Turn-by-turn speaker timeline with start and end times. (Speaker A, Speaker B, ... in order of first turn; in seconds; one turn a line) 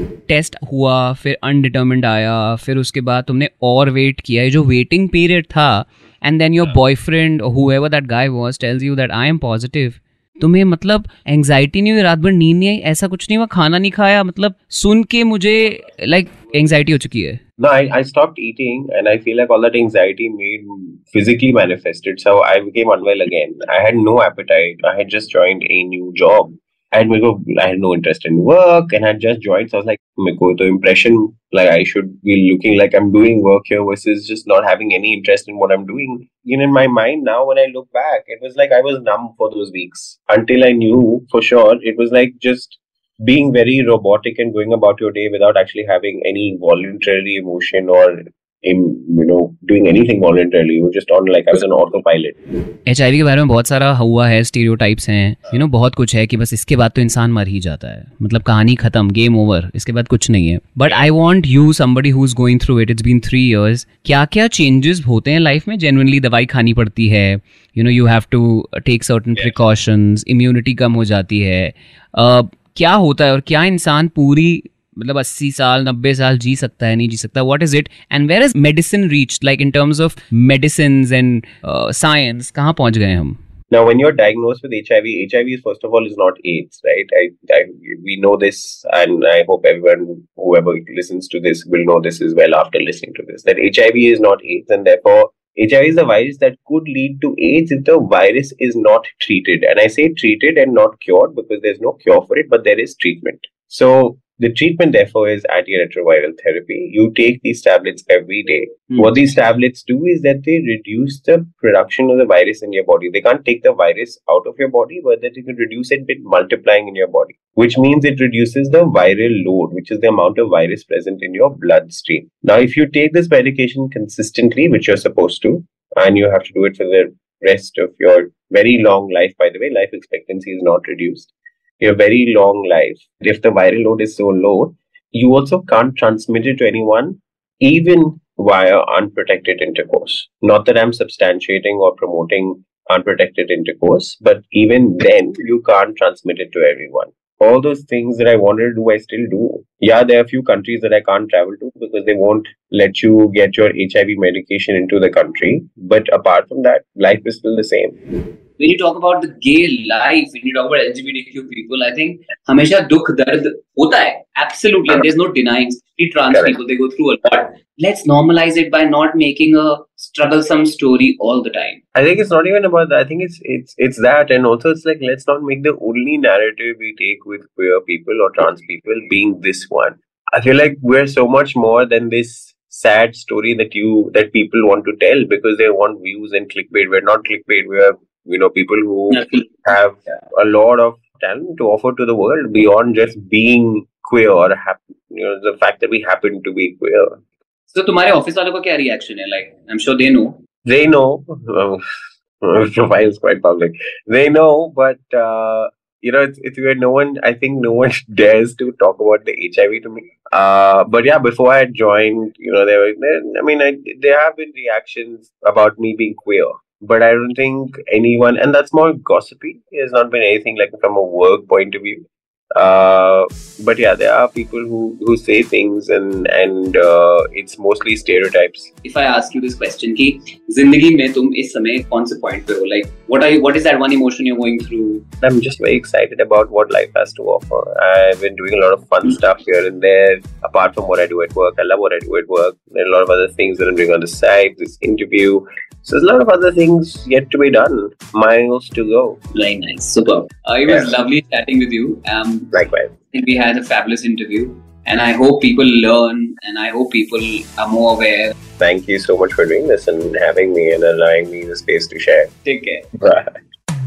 Speaker A: 0.3-17.4
Speaker B: 17.6-52.4
Speaker A: 52.9-83.4
Speaker B: 83.7-157.9
Speaker A: 158.6-171.8
Speaker B: 171.9-197.2
Speaker A: 189.1-189.6
Speaker A: 197.7-200.4
Speaker B: 200.7-201.8
Speaker B: 202.4-222.0
Speaker B: 222.6-228.7
Speaker A: 228.8-235.0
Speaker B: 235.2-249.2
Speaker A: 249.3-252.5
Speaker B: 250.7-251.0
Speaker B: 252.5-252.9
Speaker A: 253.1-258.4
Speaker B: 258.6-262.3
Speaker A: 262.4-262.9
Speaker B: 263.0-263.4